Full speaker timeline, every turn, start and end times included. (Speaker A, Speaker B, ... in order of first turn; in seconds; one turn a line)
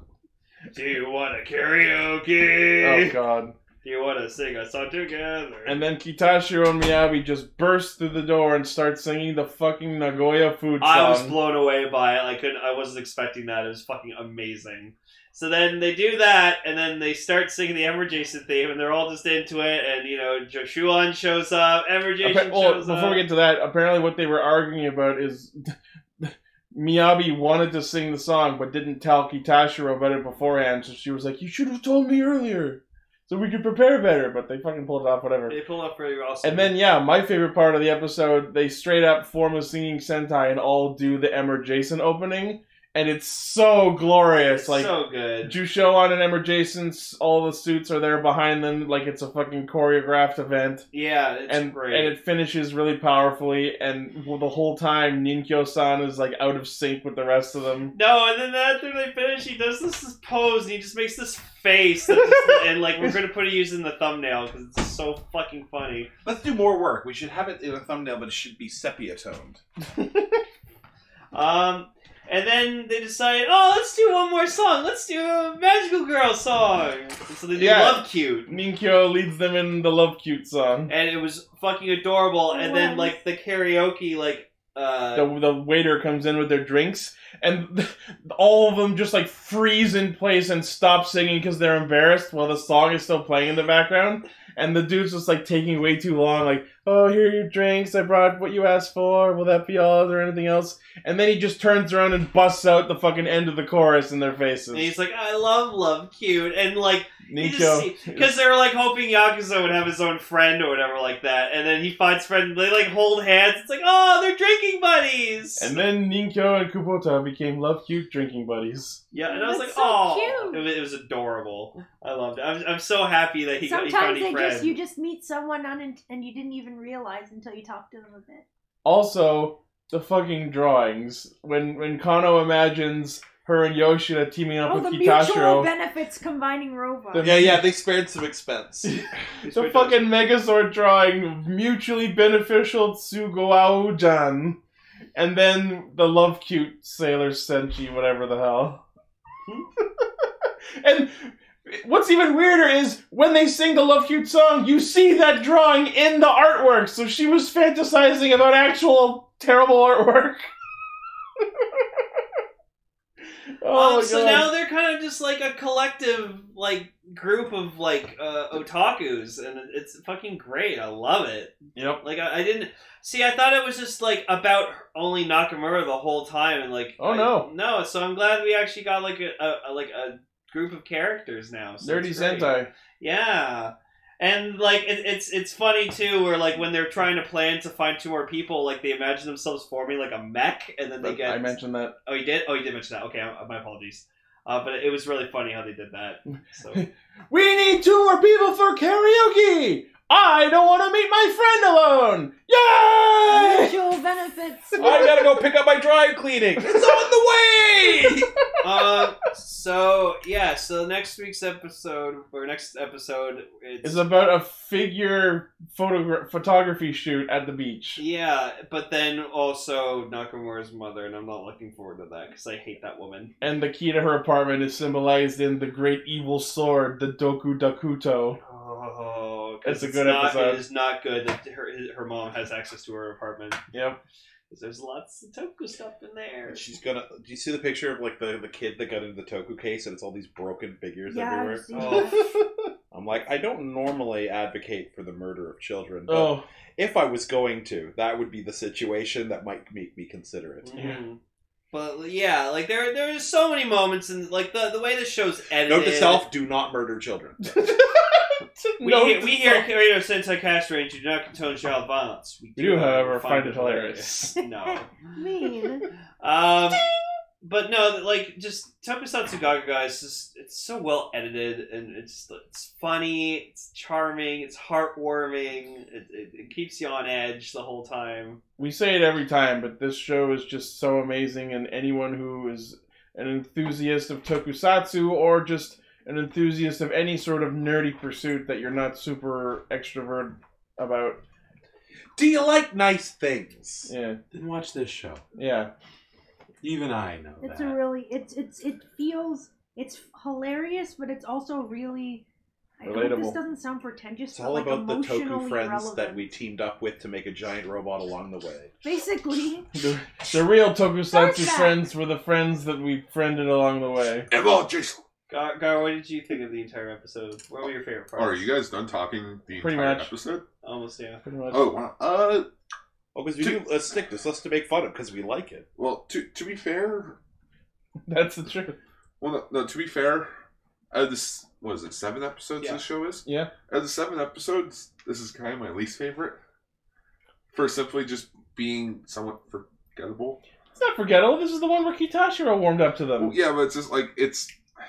Speaker A: 0.7-3.1
Speaker B: 2.8-3.5
Speaker A: 3.8-5.8
Speaker B: 5.7-11.4
Speaker A: 10.8-23.2
Speaker B: 22.2-35.6
Speaker A: 35.5-36.8
Speaker B: 36.4-44.9
Speaker A: 44.5-45.5
Speaker B: 45.4-50.8
Speaker A: 50.9-52.1
Speaker B: 51.5-57.9
Speaker A: 57.9-66.1
Speaker C: 66.2-69.6
Speaker B: 70.0-70.4
Speaker A: 71.3-78.5
Speaker B: 77.5-80.9
Speaker A: 80.9-85.3
Speaker D: 82.5-83.2
Speaker B: 85.1-104.9
Speaker A: 104.7-115.8
Speaker B: 107.3-108.4
Speaker B: 115.6-119.0
Speaker A: 119.1-124.8
Speaker D: 119.3-120.6
Speaker D: 123.6-128.4
Speaker B: 128.8-135.7
Speaker D: 134.6-137.4
Speaker B: 137.1-137.7
Speaker C: 137.2-138.9
Speaker B: 138.8-144.6
Speaker A: 139.4-140.1
Speaker B: 145.1-148.8
Speaker B: 150.8-160.5
Speaker B: 163.6-164.5
Speaker A: 163.7-196.8
Speaker B: 171.8-172.0
Speaker B: 177.0-177.5
Speaker B: 181.8-182.7
Speaker B: 191.0-191.9
Speaker B: 196.7-203.7
Speaker D: 203.2-205.3
Speaker C: 204.8-208.3
Speaker B: 204.8-205.1
Speaker B: 206.6-207.1
Speaker A: 208.6-214.0
Speaker B: 213.8-218.0
Speaker A: 218.0-223.3
Speaker B: 223.4-228.4
Speaker A: 228.4-233.6
Speaker B: 229.6-230.6
Speaker B: 233.7-234.0
Speaker A: 234.5-236.6
Speaker C: 236.5-241.9
Speaker D: 241.1-242.2
Speaker A: 241.7-242.2
Speaker B: 241.9-242.4
Speaker C: 242.9-250.7
Speaker B: 246.1-246.4
Speaker A: 250.6-251.2
Speaker A: 251.7-256.3
Speaker C: 255.6-257.6
Speaker B: 257.5-259.7
Speaker A: 258.8-264.9
Speaker B: 262.6-264.4
Speaker D: 264.4-265.9
Speaker A: 266.2-266.8
Speaker A: 267.4-278.4
Speaker B: 278.6-291.2
Speaker C: 292.1-293.9
Speaker B: 293.9-294.2
Speaker E: 294.3-295.2
Speaker B: 295.4-295.7
Speaker E: 296.6-297.8
Speaker D: 297.4-302.2
Speaker D: 302.8-306.3
Speaker B: 302.8-303.4
Speaker C: 304.3-308.7
Speaker D: 308.8-309.7
Speaker B: 309.7-314.3
Speaker D: 311.1-311.8
Speaker F: 314.3-315.0
Speaker A: 315.3-318.5
Speaker F: 318.1-320.4
Speaker B: 319.6-320.1
Speaker A: 320.6-321.2
Speaker B: 321.2-321.7
Speaker F: 321.5-322.5
Speaker C: 323.1-325.7
Speaker F: 325.8-327.2
Speaker B: 328.1-328.8
Speaker F: 329.2-330.3
Speaker F: 330.9-336.4
Speaker B: 333.2-333.5
Speaker F: 337.5-340.4
Speaker B: 340.8-343.3
Speaker F: 343.2-344.6